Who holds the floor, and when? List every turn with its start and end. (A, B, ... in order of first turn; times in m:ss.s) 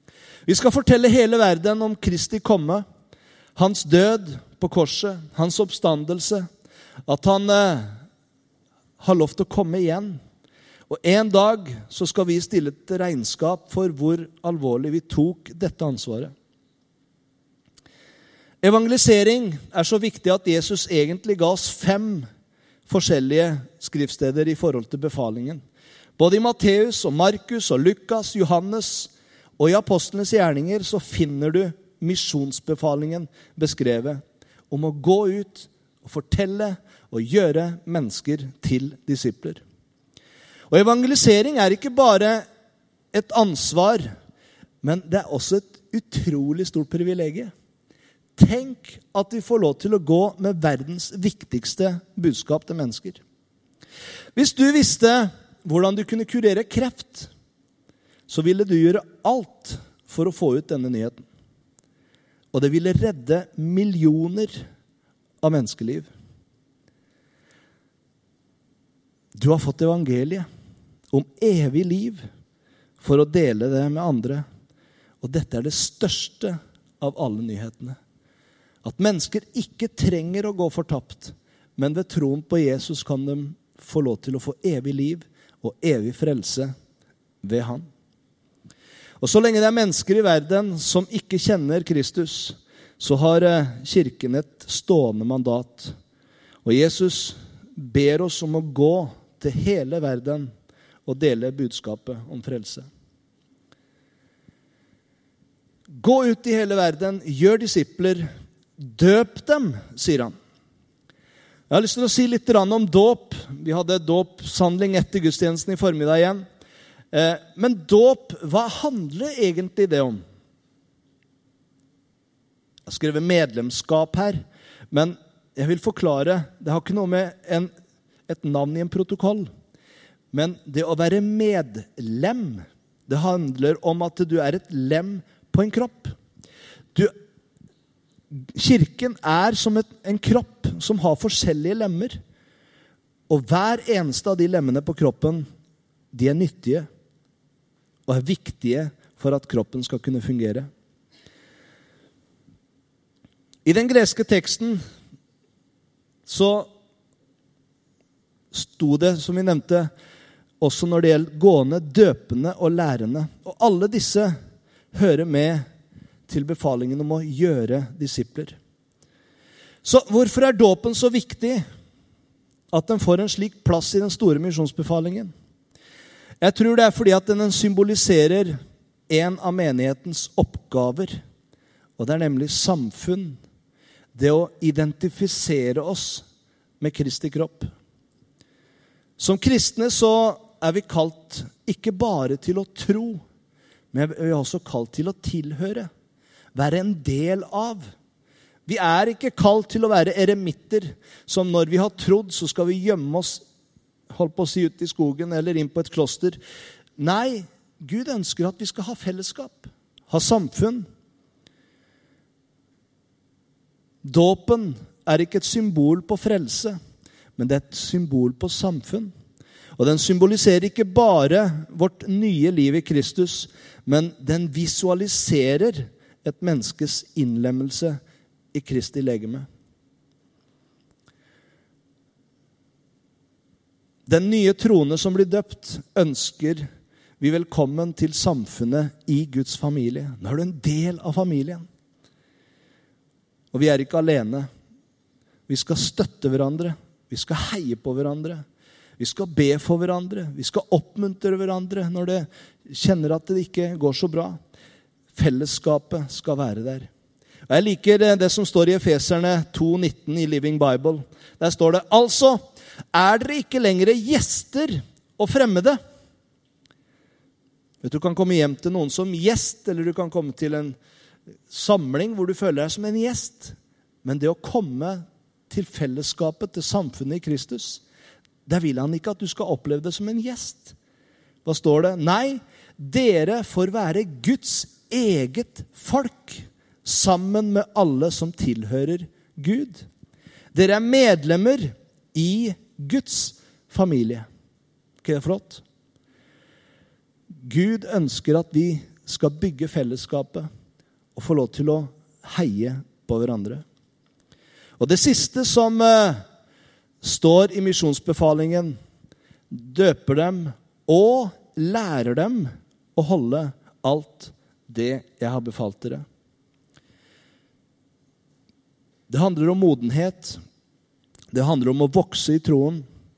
0:00.5-0:02.8 A
0:03.6-0:06.5 A
0:07.1-0:07.9 A
0:09.0-0:10.2 A
0:10.9-0:16.3 A
0:18.6-0:22.3 A
0:22.9-0:25.6 A
0:26.2-0:39.6 A
0:40.7-0:42.4 A
0:43.1-0:44.1 A
0:44.8-0:47.5 A
0:48.4-0:53.2 A
0:54.4-0:57.3 A
0:58.3-1:01.2 A
1:02.5-1:04.6 A
1:05.4-1:06.1 A
1:09.3-1:10.4 A
1:11.1-1:12.2 A
1:13.0-1:14.4 A
1:15.2-1:18.0 A
1:18.8-1:26.7 A
1:27.4-1:27.9 A
1:29.2-1:35.9 A
1:36.6-1:40.5 A
1:41.0-1:42.9 A
1:45.9-1:50.3 A
1:51.7-1:56.4 A
1:57.1-2:00.2 A
2:02.8-2:07.7 A
2:08.3-2:09.5 A
2:10.3-2:16.1 A
2:18.5-2:22.2 A
2:23.3-2:25.4 A
2:26.1-2:26.9 A
2:28.1-2:30.7 A
2:33.6-2:34.8 A
2:36.2-2:36.7 A
2:38.5-2:39.9 A
2:40.6-2:44.3 A
2:44.9-2:45.6 A
2:46.3-2:48.6 A
2:49.8-2:51.6 A
2:52.7-2:55.3 A
2:56.4-3:01.2 A
3:02.0-3:03.4 A
3:04.1-3:06.2 A
3:06.8-3:07.7 A
3:09.2-3:13.2 A
3:13.9-3:15.9 A
3:16.5-3:17.9 A
3:18.7-3:23.4 A
3:24.1-3:26.4 A
3:27.0-3:30.8 A
3:34.0-3:36.8 A
3:37.4-3:39.1 A
3:39.8-3:48.0 A
3:48.5-3:49.4 A
3:54.0-3:56.6 A
3:57.2-4:01.6 A
4:03.5-4:04.5 A
4:05.5-4:08.4 A
4:09.0-4:14.4 A
4:15.1-4:16.9 A
4:17.5-4:22.4 A
4:22.9-4:25.8 A
4:27.8-4:30.8 A
4:31.5-4:37.8 A
4:38.4-4:40.8 A
4:41.4-4:49.8 A
4:50.5-4:54.2 A
4:55.0-4:55.6 A
4:57.4-5:00.5 A
5:01.2-5:03.6 A
5:04.8-5:06.2 A
5:07.0-5:08.8 A
5:09.5-5:16.0 A
5:19.1-5:20.4 A
5:21.3-5:22.8 A